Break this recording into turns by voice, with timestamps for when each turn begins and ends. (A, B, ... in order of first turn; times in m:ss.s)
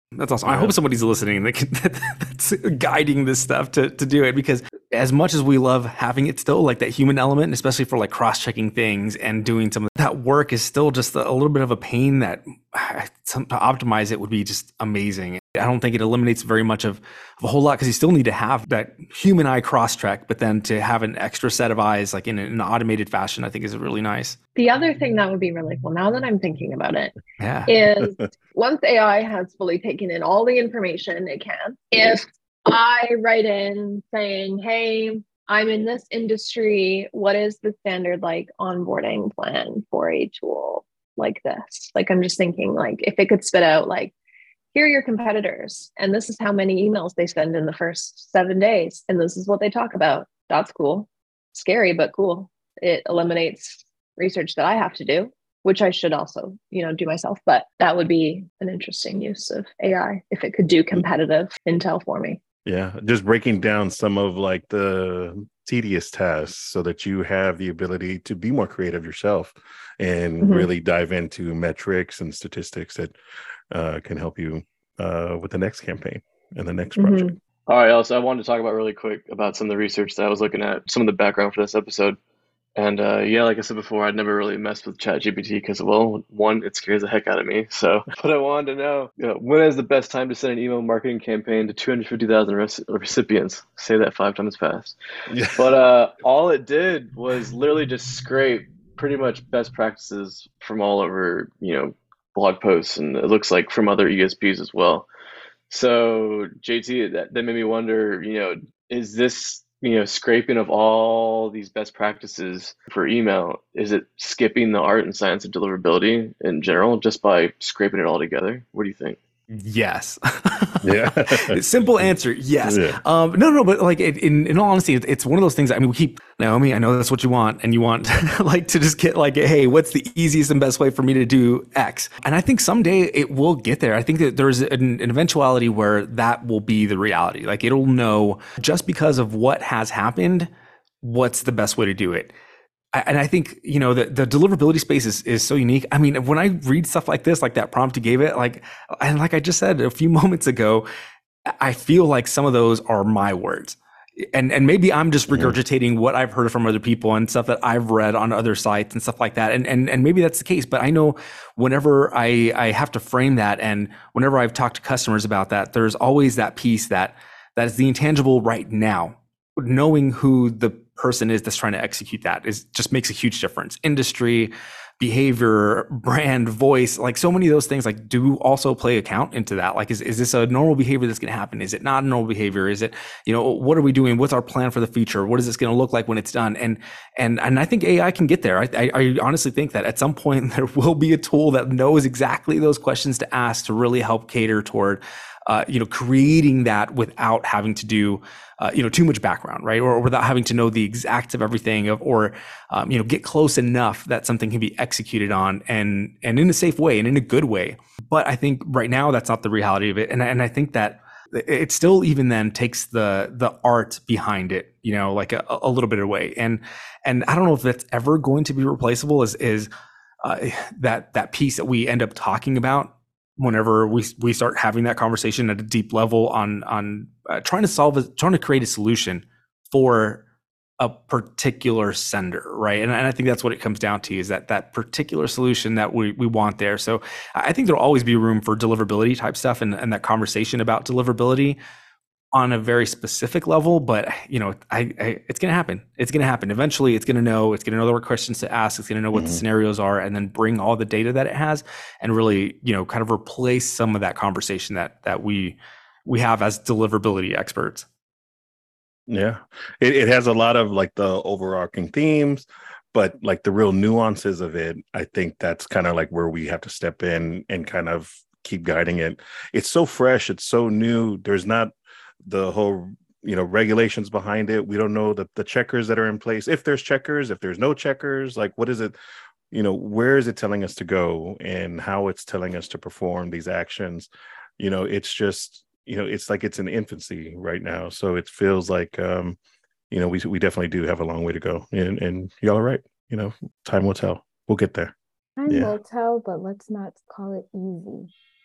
0:00.2-0:24.4 A
0:00.5-0:00.7 B
0:24.6-0:27.2 C
0:27.4-0:27.8 A
0:27.7-0:44.1 C
0:44.7-1:02.4 C
1:02.7-1:13.2 B
1:10.4-1:10.7 C
1:13.7-1:17.3 B
1:17.0-1:17.4 C
1:17.7-1:22.2 D
1:22.8-1:35.0 D
1:35.3-1:35.7 B
1:35.6-1:45.1 D
1:45.7-1:59.2 D
1:59.5-2:20.5 A
2:00.8-2:01.6 B
2:02.6-2:03.0 B
2:21.0-2:22.3 A
2:22.9-2:30.9 A
2:31.6-3:39.7 A
2:35.3-2:35.6 B
3:40.2-3:50.2 A
3:50.8-4:01.6 A
4:02.3-4:17.9 A
4:09.1-4:09.4 B
4:19.1-4:39.0 B
4:39.5-4:49.4 B
4:49.9-4:54.9 B
4:55.4-4:58.1 E
4:55.5-4:55.7 B